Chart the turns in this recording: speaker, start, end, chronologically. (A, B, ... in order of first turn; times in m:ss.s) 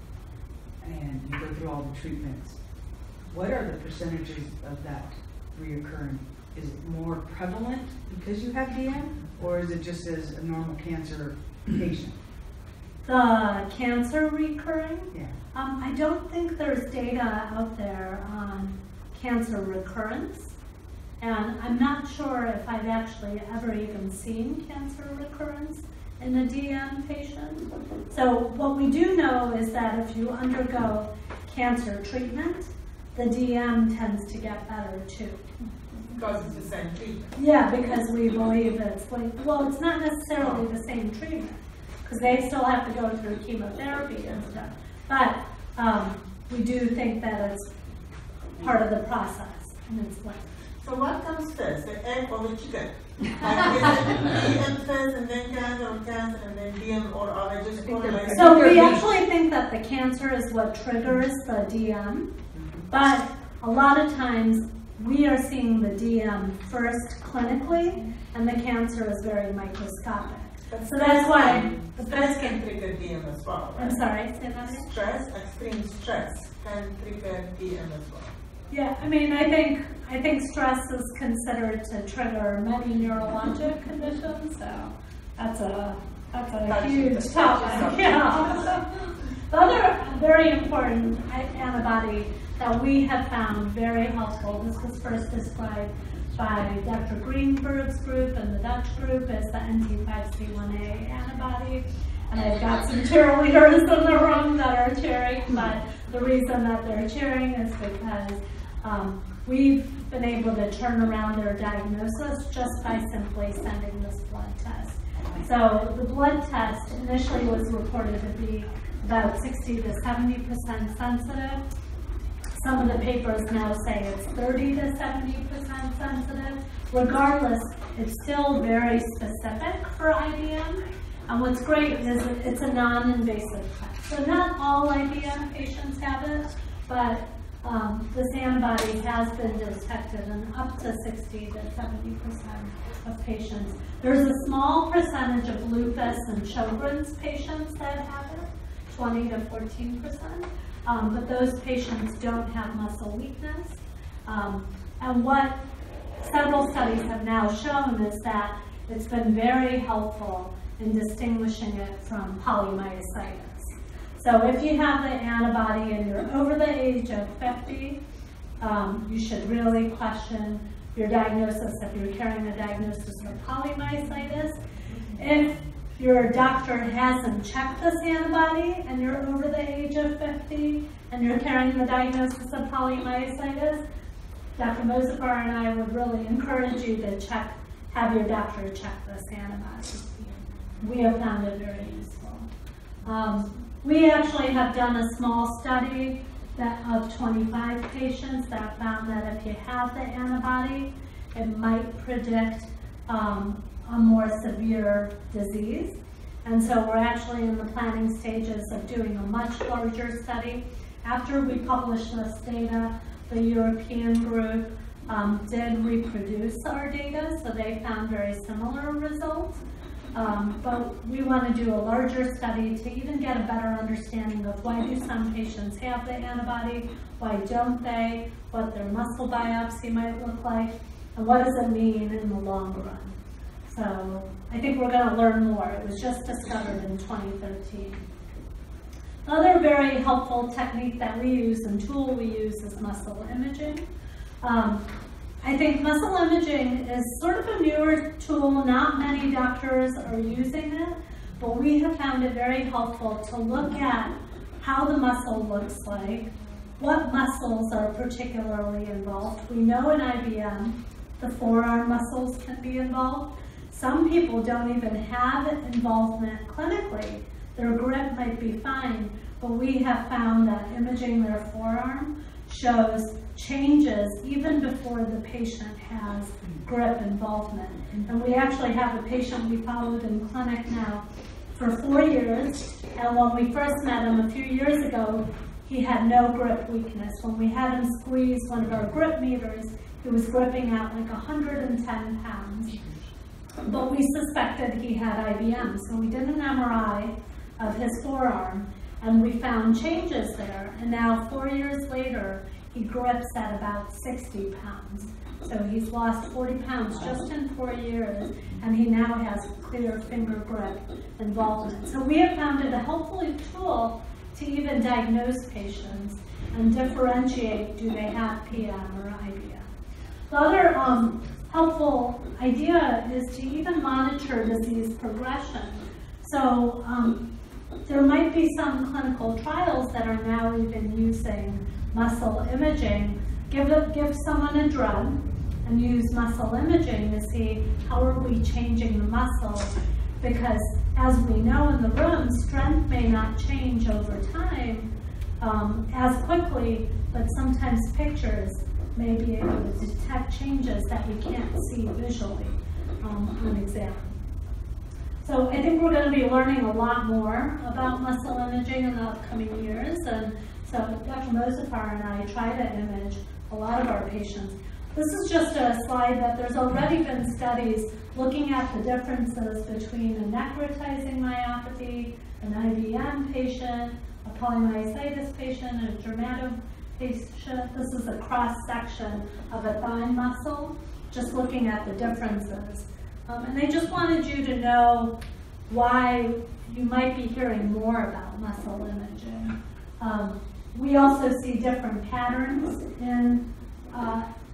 0:00.8-0:12.2 A
0:13.0-0:20.5 B
0:15.1-0:15.4 A
0:21.2-0:35.4 B
0:36.0-0:37.3 C
0:37.4-0:47.7 B
0:48.6-0:50.5 B
0:50.8-0:59.0 C
0:57.8-0:59.1 A
0:58.3-1:02.3 B
1:02.5-1:02.9 A
1:02.9-1:12.6 B
1:10.7-1:14.0 C
1:13.8-1:14.9 B
1:14.8-1:18.3 C
1:18.7-1:28.9 B
1:26.6-1:28.8 C
1:29.5-2:01.6 B
2:02.6-2:35.6 B
2:36.2-2:48.0 B
2:48.6-2:54.6 B
2:55.2-3:03.8 B
3:04.6-3:10.1 B
3:10.8-3:12.5 B
3:13.0-3:39.6 B
3:40.1-3:53.1 B
3:53.7-3:58.0 B
3:59.3-4:03.8 B
4:04.4-4:04.8 B
4:05.4-4:41.0 B
4:41.6-4:52.8 B
4:53.6-5:19.7 B
5:20.3-5:27.3 B
5:27.9-5:44.9 B
5:45.4-5:54.2 B
5:55.2-6:25.2 B
6:25.7-6:34.3 B